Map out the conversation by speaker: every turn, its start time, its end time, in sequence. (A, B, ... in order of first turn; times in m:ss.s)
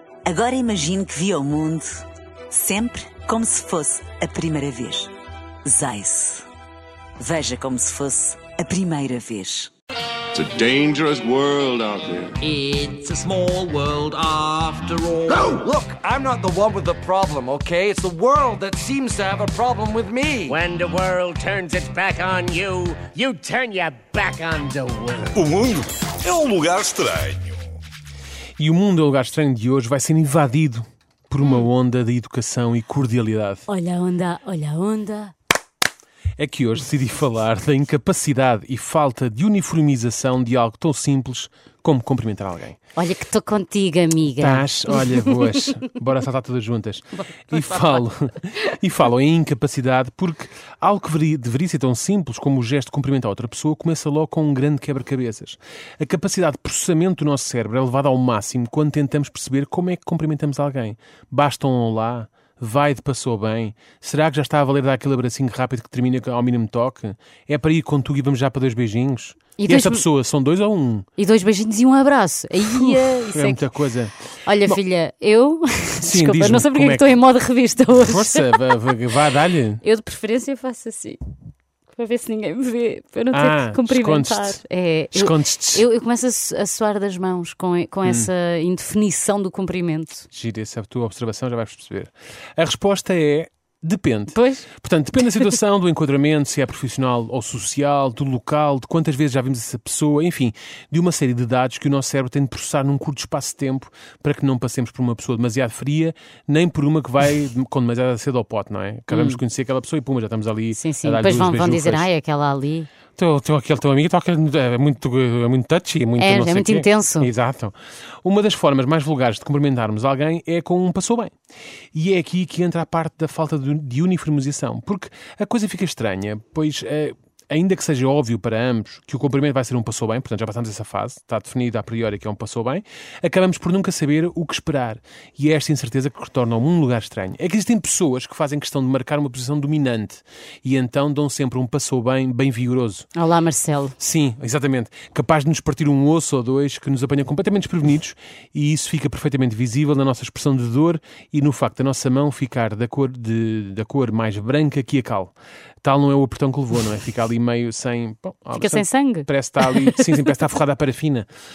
0:00.2-0:05.1 A
0:05.6-0:06.5 A
0:07.2-0:09.7 A
0:10.3-0:12.4 B
0:12.4-0:15.4 C
0:15.3-0:20.6 D
0:20.5-0:25.4 E
0:25.4-0:27.6 F
0:28.6-0:33.7 G
0:33.7-0:35.3 H
0:36.4-0:42.8 G
0:43.0-0:45.4 H
0:44.4-1:11.1 G
1:09.6-1:10.0 H
1:11.2-1:13.6 H
1:12.7-1:14.1 G
1:14.4-1:18.6 H
1:16.0-1:17.2 G
1:17.9-1:19.8 G
1:19.8-1:21.2 H
1:21.9-1:30.3 H
1:23.3-1:24.6 G
1:25.1-1:25.8 G
1:30.3-1:52.1 G
1:34.3-1:34.7 H
1:49.1-1:49.4 H
1:50.8-1:52.9 H
1:53.2-2:01.3 G
1:56.2-1:57.3 H
2:01.9-2:23.1 G
2:23.2-2:24.0 H
2:24.0-2:35.3 G
2:35.8-2:41.3 G
2:38.5-2:40.1 H